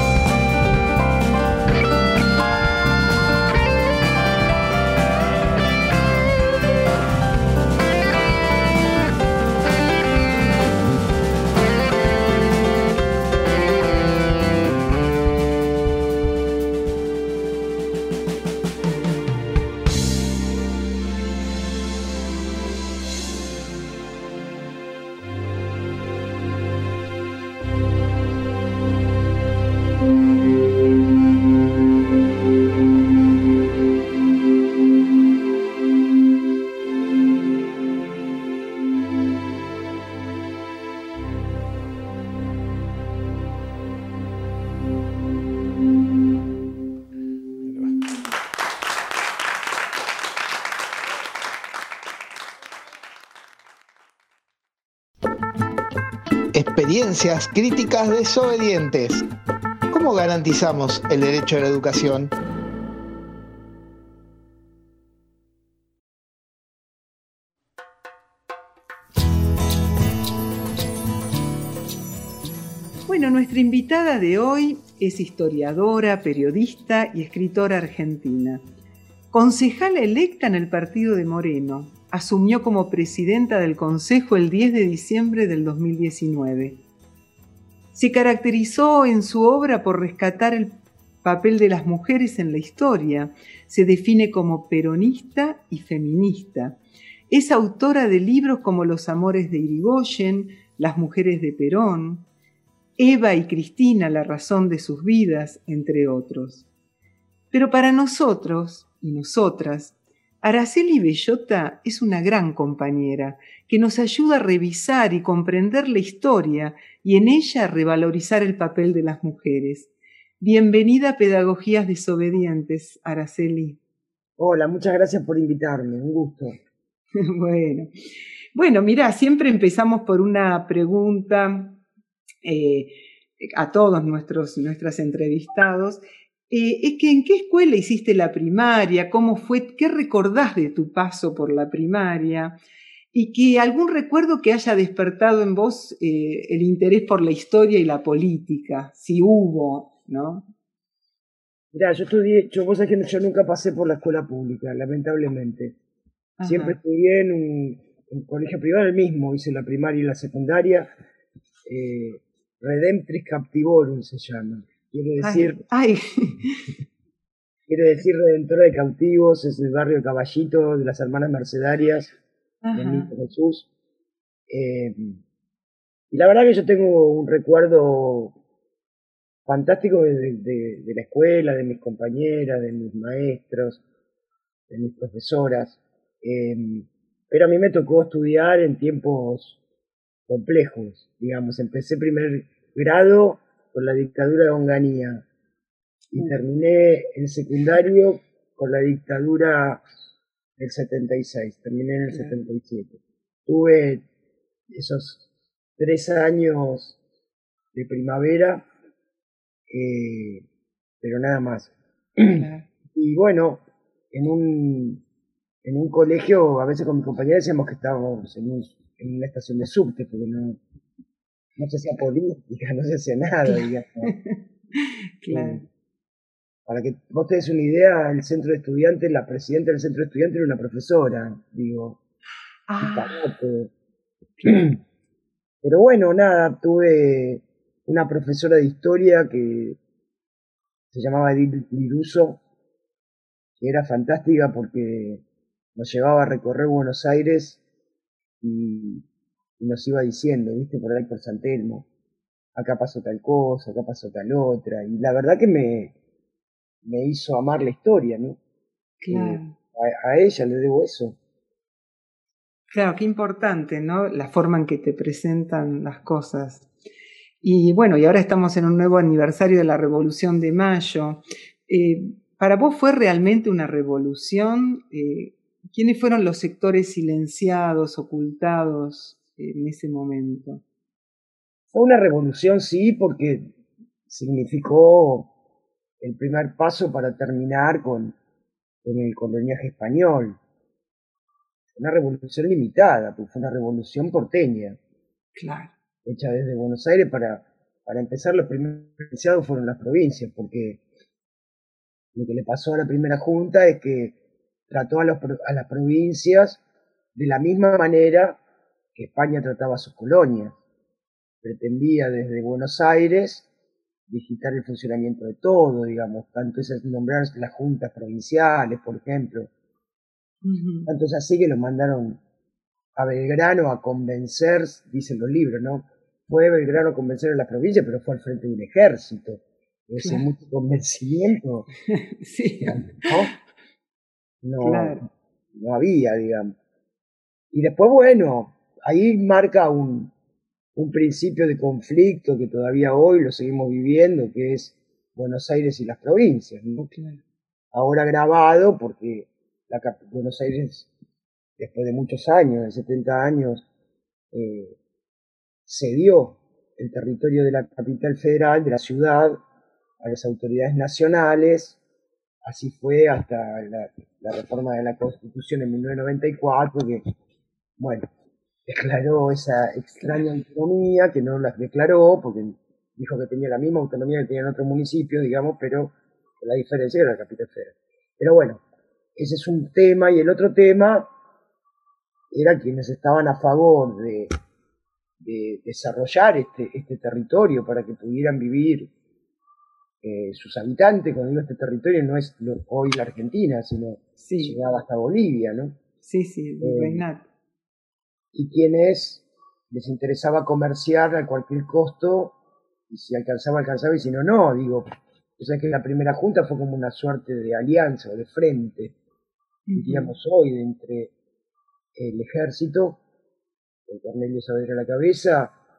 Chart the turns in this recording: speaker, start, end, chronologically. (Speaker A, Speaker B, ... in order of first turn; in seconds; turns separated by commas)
Speaker A: 56.5-59.2, Speaker A: 59.9-62.3, Speaker B: 73.1-78.7, Speaker B: 79.3-86.8, Speaker B: 87.9-96.8, Speaker B: 97.3-102.2, Speaker B: 103.0-106.7, Speaker B: 107.5-119.9, Speaker B: 120.4-123.8, Speaker C: 124.4-126.6, Speaker B: 127.2-127.9, Speaker B: 128.5-131.8, Speaker B: 132.4-142.6, Speaker B: 143.1-150.5, Speaker C: 151.7-155.8, Speaker B: 156.4-156.8, Speaker C: 156.4-160.9, Speaker C: 161.7-165.6, Speaker B: 165.2-166.6, Speaker C: 167.7-172.1, Speaker B: 172.6-173.1, Speaker C: 172.7-173.7, Speaker C: 174.5-175.2, Speaker C: 176.1-178.3, Speaker C: 179.4-183.8, Speaker C: 184.7-189.6, Speaker C: 190.3-195.2, Speaker C: 196.1-199.8, Speaker C: 200.6-204.0, Speaker C: 204.7-205.2, Speaker C: 205.8-207.0, Speaker C: 207.7-208.7, Speaker C: 209.7-210.4, Speaker C: 211.0-215.0, Speaker B: 212.3-212.7, Speaker C: 215.6-220.6, Speaker C: 221.6-224.1, Speaker B: 223.5-225.6, Speaker C: 225.3-225.6, Speaker C: 226.7-232.0, Speaker B: 232.7-233.1, Speaker C: 232.8-233.7, Speaker C: 234.5-234.8, Speaker C: 235.6-239.8, Speaker C: 240.9-242.4, Speaker C: 243.6-245.2, Speaker C: 245.8-247.6, Speaker C: 248.4-249.0, Speaker C: 249.6-251.9, Speaker C: 252.5-255.9, Speaker C: 256.8-258.4, Speaker B: 259.0-259.5, Speaker C: 259.1-261.2, Speaker B: 262.7-266.7, Speaker B: 267.4-280.6, Speaker C: 281.7-283.5, Speaker C: 284.1-285.3, Speaker C: 286.0-288.1, Speaker C: 288.8-290.4, Speaker C: 291.8-294.8, Speaker B: 295.4-295.7, Speaker C: 296.0-300.8, Speaker C: 302.1-304.1, Speaker C: 304.7-306.6, Speaker C: 307.1-308.4, Speaker C: 308.9-310.6, Speaker C: 311.4-313.5, Speaker C: 314.1-319.5, Speaker B: 320.4-320.9, Speaker C: 320.9-322.2, Speaker C: 322.9-331.7, Speaker B: 331.9-332.9, Speaker C: 332.7-333.3, Speaker C: 334.4-336.5, Speaker B: 334.6-335.0, Speaker C: 337.5-340.1, Speaker C: 340.8-346.9, Speaker B: 346.8-347.2, Speaker C: 347.7-350.9, Speaker C: 351.6-353.6, Speaker C: 354.3-354.8, Speaker C: 355.6-359.4, Speaker C: 360.0-361.8, Speaker C: 362.4-367.0, Speaker C: 367.8-368.1, Speaker C: 368.7-378.6, Speaker C: 379.1-381.1, Speaker C: 382.3-384.3, Speaker C: 385.2-388.9, Speaker C: 390.0-395.8, Speaker B: 394.2-394.6, Speaker B: 396.0-397.3, Speaker C: 396.6-397.0, Speaker C: 398.3-402.4, Speaker C: 402.9-408.9, Speaker B: 409.7-410.1, Speaker C: 409.7-411.1, Speaker C: 411.9-413.0, Speaker C: 413.9-415.5